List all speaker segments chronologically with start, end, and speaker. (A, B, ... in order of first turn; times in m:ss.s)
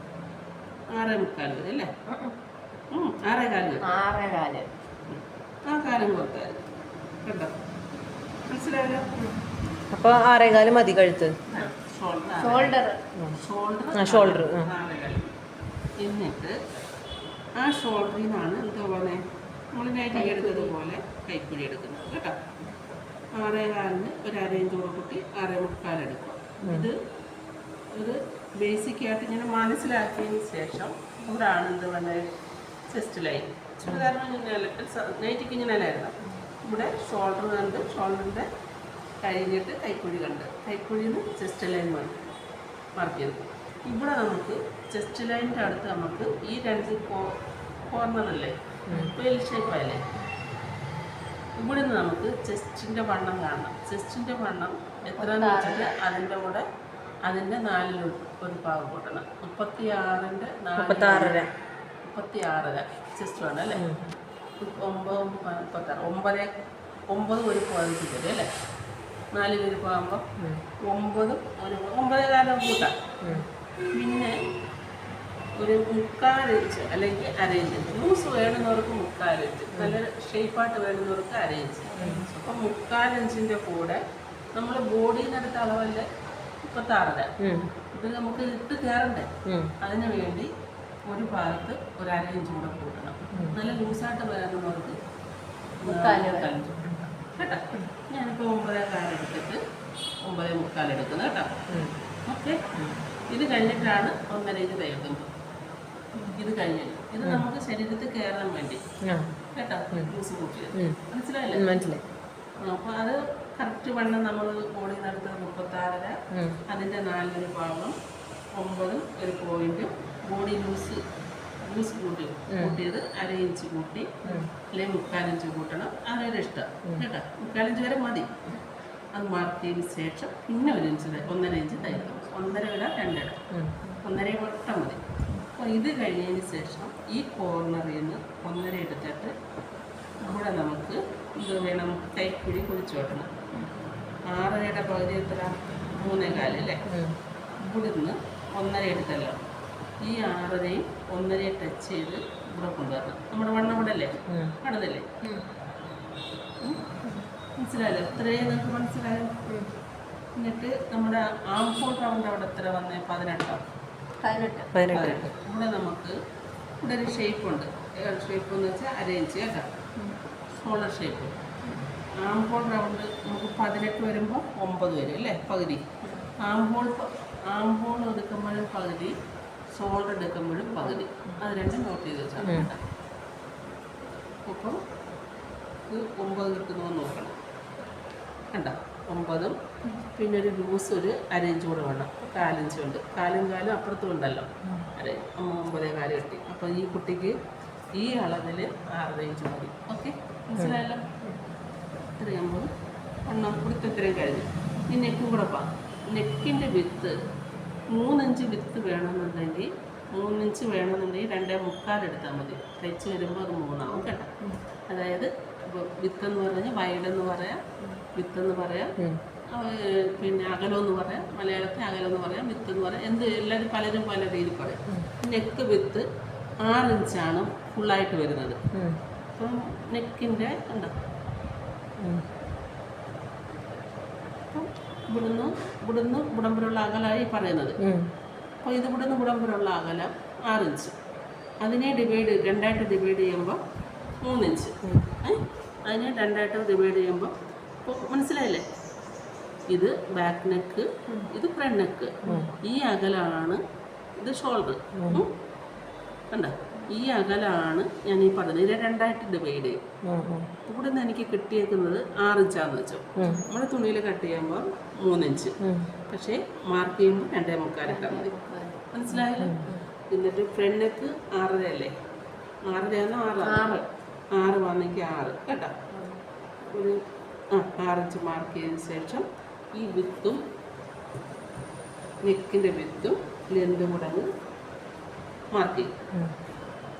0:00.9-0:01.9 A
0:02.1-0:02.3 B
0:02.9-0:03.9 A
0:03.8-0:04.7 B
0:05.1-0:06.6 A
0:07.2-0:07.5 A
0:08.5-0:09.1 A
0:09.1-0:09.4 B
0:09.9-0:11.4 C
0:11.5-0:12.7 A
0:12.4-0:13.0 B
0:13.3-0:15.3 A
0:13.9-0:14.7 C
0:16.0-0:16.6 A
0:17.6-0:22.4 A
0:20.1-0:20.7 B
0:23.3-0:27.0 A
0:26.6-0:26.9 C
0:27.9-0:32.3 A
0:32.9-0:38.5 A
0:39.2-0:42.2 A
0:43.0-0:47.3 A
0:47.9-0:48.6 A
0:48.9-0:49.1 C
0:49.1-0:50.0 A
0:51.6-0:56.6 A
0:55.2-0:55.9 B
0:57.2-1:01.5 A
1:00.8-1:01.5 C
1:02.0-1:03.8 A
1:03.8-1:04.0 C
1:04.6-1:06.5 A
1:07.1-1:08.5 A
1:09.3-1:10.3 A
1:10.4-1:10.6 C
1:10.8-1:12.9 A
1:13.9-1:14.4 A
1:15.6-1:24.0 A
1:24.5-1:26.1 A
1:26.6-1:27.3 A
1:27.4-1:27.7 C
1:27.9-1:30.5 A
1:29.4-1:29.7 C
1:31.0-1:35.0 A
1:35.8-1:36.5 B
1:35.8-1:39.6 A
1:40.2-1:41.6 A
1:41.7-1:42.0 C
1:42.2-1:42.6 A
1:43.3-1:45.3 A
1:46.3-1:48.8 A
1:49.0-1:49.3 C
1:49.5-1:51.8 A
1:51.5-1:52.0 C
1:52.6-1:57.9 A
1:56.3-1:56.6 C
1:58.5-2:01.0 A
2:01.6-2:08.5 A
2:02.5-2:02.8 C
2:09.1-2:13.4 A
2:14.0-2:19.3 A
2:20.2-2:23.4 A
2:24.3-2:26.8 A
2:26.9-2:27.2 C
2:27.6-2:29.4 A
2:30.0-2:35.1 A
2:34.3-2:34.6 C
2:36.6-2:36.9 A
2:37.6-2:39.4 A
2:40.4-2:43.6 A
2:44.2-2:44.7 B
2:44.7-2:45.3 C
2:44.9-2:46.2 A
2:46.8-2:49.7 A
2:50.5-2:51.4 A
2:52.1-2:55.9 A
2:56.0-2:56.3 B
2:56.4-2:59.2 A
2:59.7-3:02.8 A
3:02.4-3:02.7 C
3:04.4-3:04.8 A
3:05.9-3:07.4 A
3:08.5-3:17.4 A
3:17.9-3:21.2 A
3:22.2-3:22.7 A
3:23.2-3:27.2 A
3:27.9-3:34.3 A
3:34.9-3:38.9 A
3:39.5-3:46.0 A
3:46.6-3:48.6 A
3:48.7-3:49.0 C
3:49.4-3:50.9 A
3:52.0-3:52.2 C
3:54.5-3:57.8 A
3:57.8-3:58.1 C
3:58.6-4:00.9 A
4:01.6-4:03.6 A
4:04.2-4:07.3 A
4:07.8-4:08.6 A
4:09.7-4:13.6 A
4:12.2-4:12.5 C
4:14.2-4:15.3 A
4:15.0-4:15.2 C
4:16.3-4:19.8 A
4:20.0-4:20.5 C
4:20.6-4:25.6 A
4:23.2-4:23.4 C
4:23.2-4:23.5 B
4:25.6-4:25.9 C
4:26.1-4:28.3 A
4:27.8-4:28.8 B
4:28.9-4:31.9 A
4:29.4-4:29.7 C
4:32.6-4:35.8 A
4:33.4-4:33.8 B
4:35.9-4:36.2 B
4:36.6-4:37.0 A
4:37.5-4:40.4 A
4:42.2-4:44.3 A
4:45.5-4:45.9 A